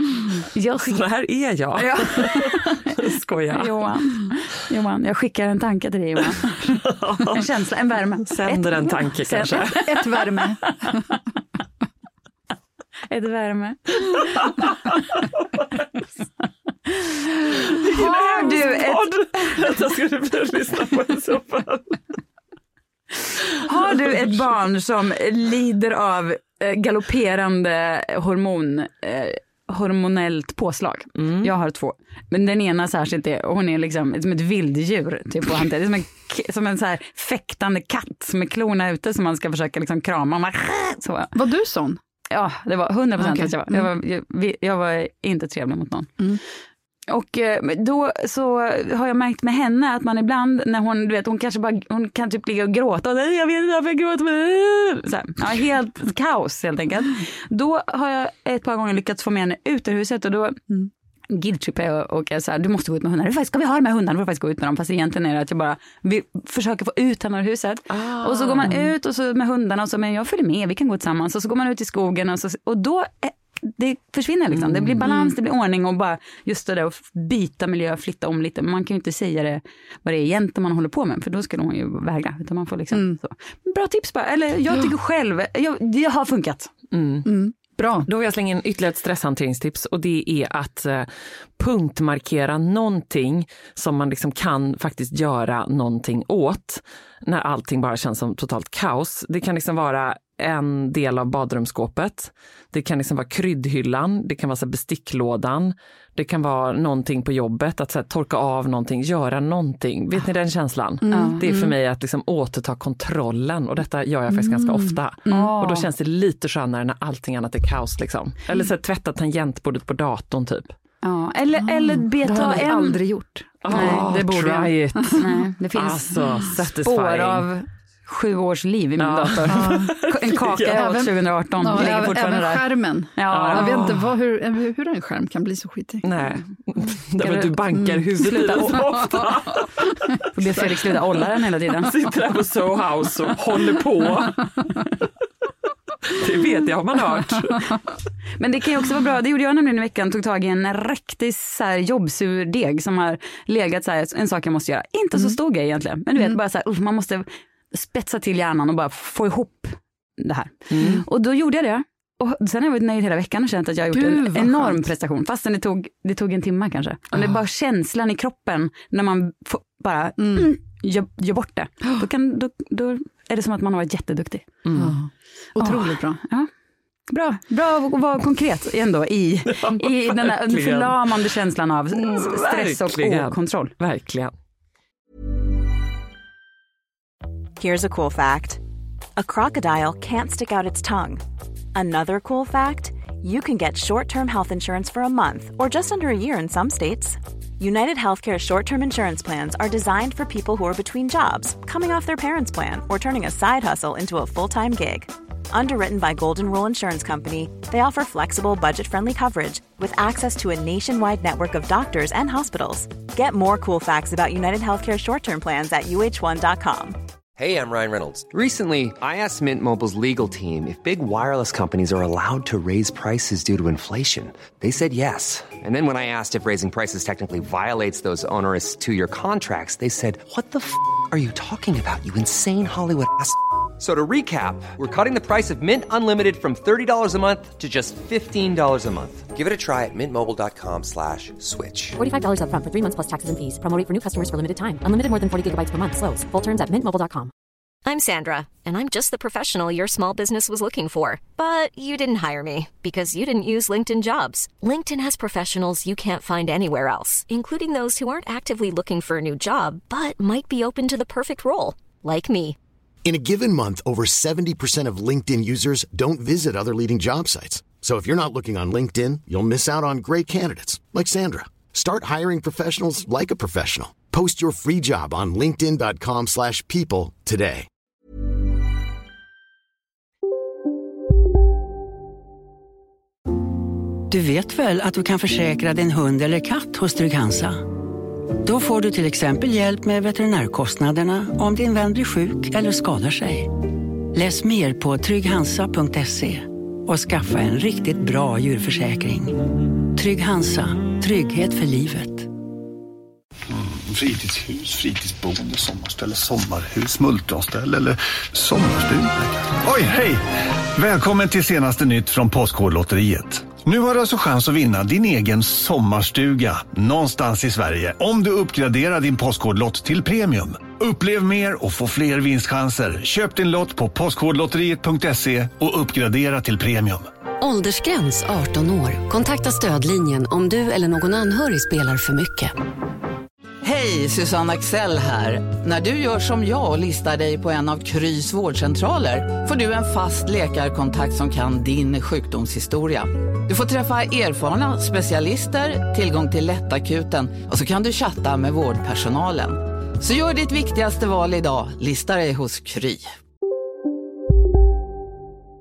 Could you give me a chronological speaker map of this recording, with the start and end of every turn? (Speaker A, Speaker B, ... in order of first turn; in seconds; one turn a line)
Speaker A: 0.5-1.0
Speaker B: 0.8-3.8
Speaker A: 1.8-3.0
Speaker A: 3.5-6.8
Speaker B: 6.7-7.4
Speaker A: 7.3-9.8
Speaker B: 8.3-9.9
Speaker C: 9.7-11.1
Speaker A: 13.1-14.2
Speaker B: 14.4-14.7
Speaker B: 17.6-22.0
Speaker A: 17.9-19.1
Speaker A: 23.6-41.4
Speaker B: 31.2-31.5
Speaker C: 41.4-42.0
Speaker A: 42.3-46.1
Speaker C: 43.2-43.9
Speaker A: 47.1-60.6
Speaker A: 61.3-86.7
Speaker B: 67.9-68.8
Speaker C: 75.0-75.3
Speaker C: 82.9-83.2
Speaker B: 86.9-87.3
Speaker C: 87.2-88.1
Speaker B: 88.1-120.8
Speaker C: 111.0-111.7
Speaker A: 111.1-111.4
Speaker C: 114.3-115.5
Speaker A: 115.3-115.9
Speaker A: 121.0-123.0
Speaker C: 121.6-124.2
Speaker B: 123.6-127.5
Speaker A: 123.7-133.8
Speaker B: 129.0-131.1
Speaker C: 129.5-129.9
Speaker C: 130.7-136.1
Speaker B: 133.3-134.1
Speaker B: 136.0-140.7
Speaker A: 137.2-137.6
Speaker C: 137.8-138.8
Speaker A: 138.1-138.8
Speaker A: 140.3-141.9
Speaker B: 141.7-144.6
Speaker B: 146.1-147.8
Speaker A: 148.4-174.6
Speaker B: 160.7-161.0
Speaker C: 163.9-164.8
Speaker C: 170.2-170.5
Speaker B: 174.6-175.0
Speaker C: 174.8-176.2
Speaker A: 175.6-176.5
Speaker A: 177.1-183.7
Speaker B: 179.6-181.1
Speaker B: 181.9-184.3
Speaker D: 187.6-188.6
Speaker D: 189.2-191.2
Speaker D: 191.8-217.0
Speaker E: 217.4-242.0
Speaker F: 242.0-247.3
Speaker G: 247.8-262.6
Speaker H: 263.1-277.7
Speaker I: 284.1-287.6
Speaker I: 288.4-293.6
Speaker I: 294.1-299.4
Speaker I: 299.9-302.3
Speaker J: 303.5-310.2
Speaker J: 310.8-327.1
Speaker K: 327.4-332.5
Speaker L: 333.6-353.1